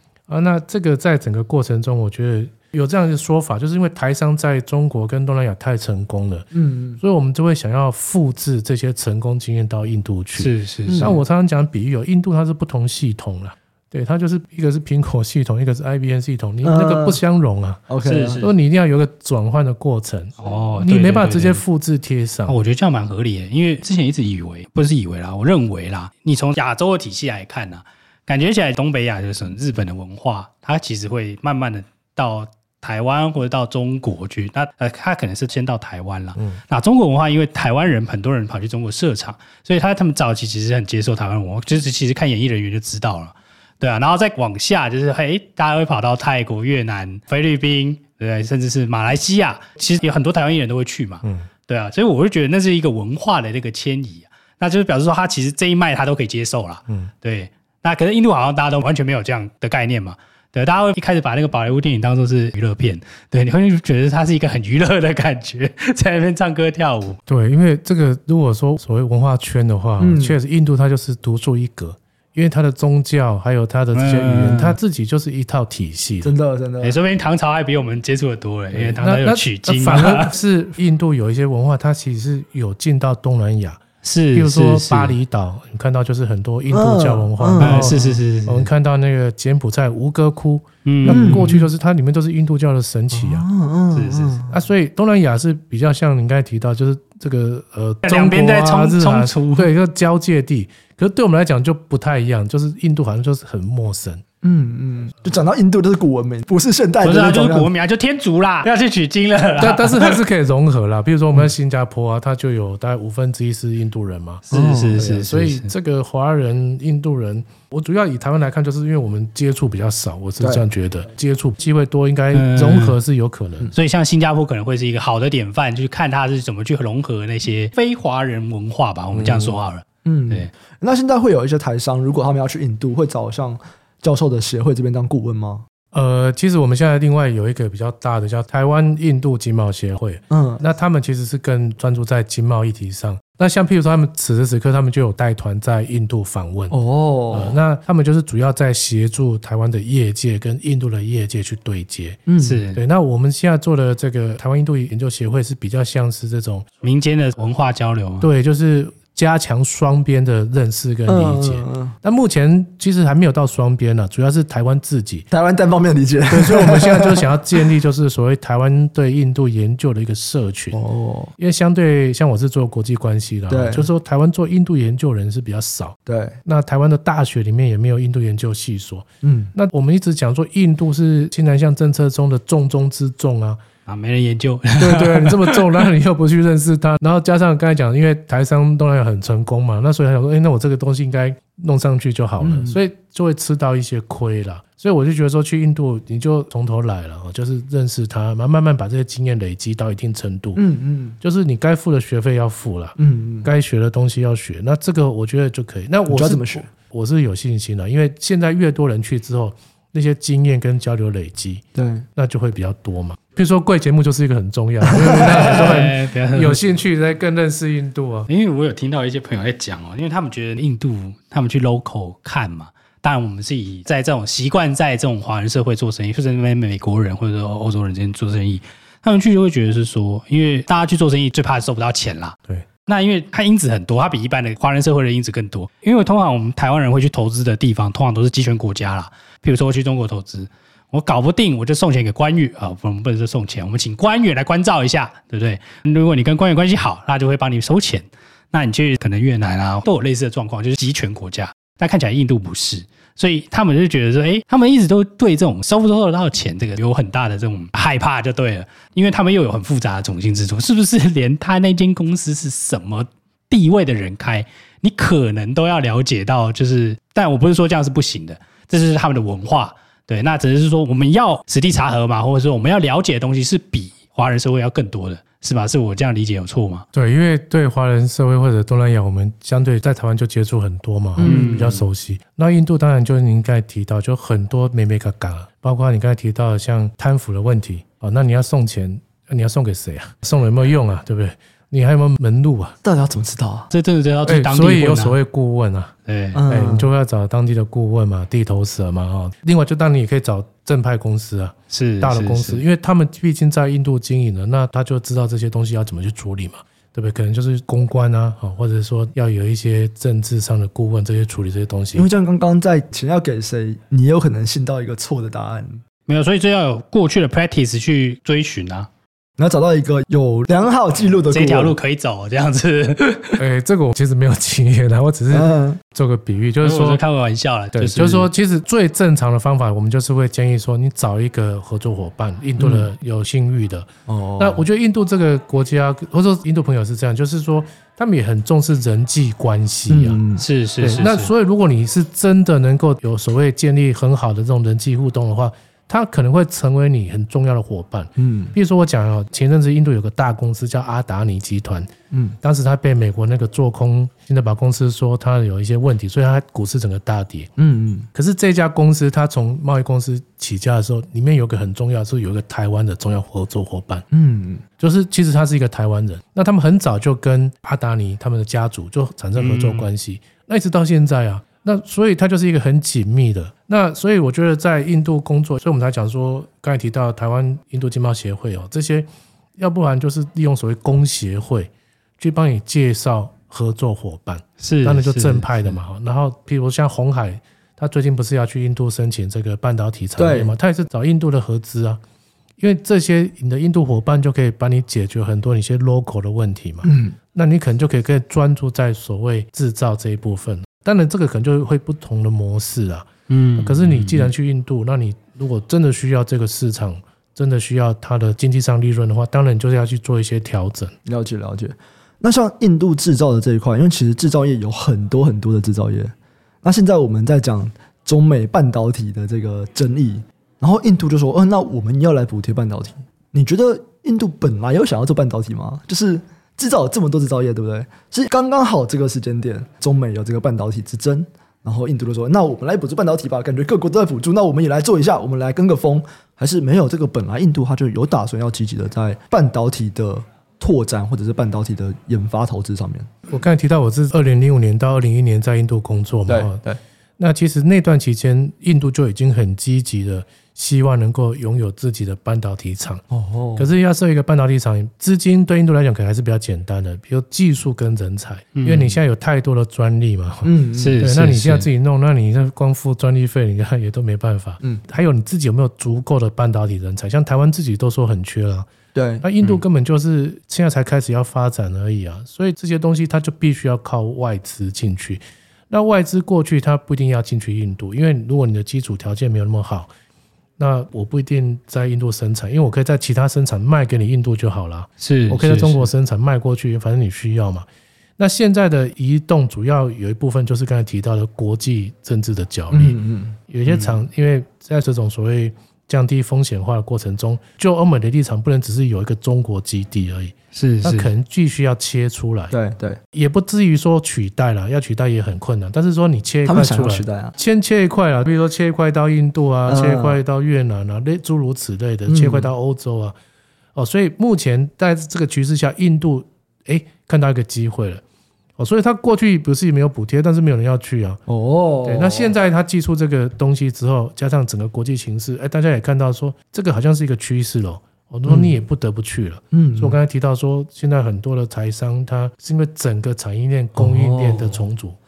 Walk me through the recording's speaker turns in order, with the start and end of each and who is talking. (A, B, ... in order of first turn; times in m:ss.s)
0:00.3-0:06.5 A
0:06.5-0:07.0 B
0:07.0-0:17.8 A
0:10.4-0:11.1 C
0:10.9-0:11.2 B
0:16.6-0:17.2 B
0:17.9-0:18.4 B
0:18.0-0:18.5 C
0:18.4-0:22.6 A
0:20.4-0:21.6 C
0:22.5-1:07.2 C
1:07.3-1:16.3 A
1:10.0-1:10.4 B
1:13.9-1:14.8 C
1:16.2-1:17.0 B
1:16.8-1:20.4 C
1:18.7-1:33.4 A
1:24.0-1:25.2 C
1:26.7-1:28.2 B
1:27.6-1:28.7 C
1:30.8-1:31.5 C
1:31.1-1:31.7 B
1:33.1-1:34.6 B
1:33.9-1:34.4 C
1:34.5-1:44.2 A
1:38.0-1:39.7 C
1:44.4-1:47.7 B
1:47.0-1:50.2 C
1:49.6-2:03.7 A
1:54.5-1:55.0 B
1:54.5-1:55.7 C
2:02.3-2:03.0 C
2:03.7-2:10.5 C
2:09.1-2:09.6 A
2:10.0-2:15.6 B
2:15.9-2:26.7 A
2:20.3-2:20.6 B
2:26.7-2:27.6 B
2:27.3-2:36.7 A
2:32.3-2:32.6 B
2:32.4-2:32.8 C
2:36.8-2:38.3 C
2:38.2-2:45.3 A
2:41.1-2:42.0 B
2:45.3-2:47.3 B
2:46.3-2:50.8 A
2:50.7-2:51.3 B
2:51.4-3:03.6 A
2:53.5-2:53.9 B
2:56.0-2:56.4 B
2:59.2-2:59.5 B
3:03.9-3:05.9 C
3:04.8-3:20.6 A
3:12.4-3:12.8 B
3:20.6-3:21.2 B
3:21.2-3:31.6 A
3:23.0-3:23.5 B
3:26.1-3:26.7 B
3:31.7-3:32.0 B
3:32.2-3:38.3 A
3:34.8-3:35.6 B
3:35.1-3:36.6 C
3:38.3-4:36.8 C
4:36.9-4:52.8 A
4:41.2-4:41.7 B
4:41.2-4:41.8 C
4:52.8-4:53.7 B
4:53.7-4:55.2 C
4:54.2-4:55.9 A
4:56.1-4:56.4 C
4:56.3-4:56.9 B
4:56.5-5:12.1 A
5:01.7-5:02.6 C
5:11.9-5:15.8 B
5:16.1-5:18.9 C
5:19.4-5:21.8 B
5:21.3-5:23.4 C
5:23.4-5:27.0 A
5:25.3-5:25.8 B
5:26.6-5:28.3 C
5:27.7-5:33.9 A
5:32.6-5:32.9 B
5:34.1-5:34.6 B
5:34.4-5:40.2 A
5:39.9-5:40.4 B
5:40.4-5:41.3 C
5:40.8-5:57.5 A
5:48.2-5:48.5 B
5:52.1-5:52.4 B
5:57.6-5:58.1 B
5:58.1-6:04.0 A
6:04.1-6:04.6 B
6:04.8-6:32.0 A
6:09.4-6:09.9 C
6:24.6-6:25.7 C
6:30.2-6:30.5 B
6:32.6-6:50.9 A
6:36.8-6:37.2 B
6:43.3-6:44.3 C
6:51.0-7:23.1 B
7:23.3-7:26.6 A
7:26.3-7:26.8 B
7:27.2-7:33.0 A
7:33.1-7:33.7 B
7:33.6-7:48.7 A
7:38.5-7:39.0 C
7:40.4-7:41.0 B
7:40.8-7:41.7 C
7:48.9-7:49.2 B
7:49.2-7:59.9 A
8:00.6-8:07.7 A
8:05.0-8:05.9 C
8:08.2-8:13.0 A
8:12.7-8:13.4 B
8:13.5-8:22.5 A
8:13.7-8:14.0 C
8:20.5-8:21.1 C
8:22.5-8:23.0 B
8:23.1-8:33.1 A
8:26.4-8:27.3 B
8:29.7-8:30.2 B
8:32.1-8:32.5 B
8:33.7-8:38.0 A
8:38.6-8:41.2 A
8:41.3-8:42.3 B
8:41.8-8:55.0 A
8:48.2-8:48.5 B
8:49.5-8:50.0 B
8:53.8-8:54.6 B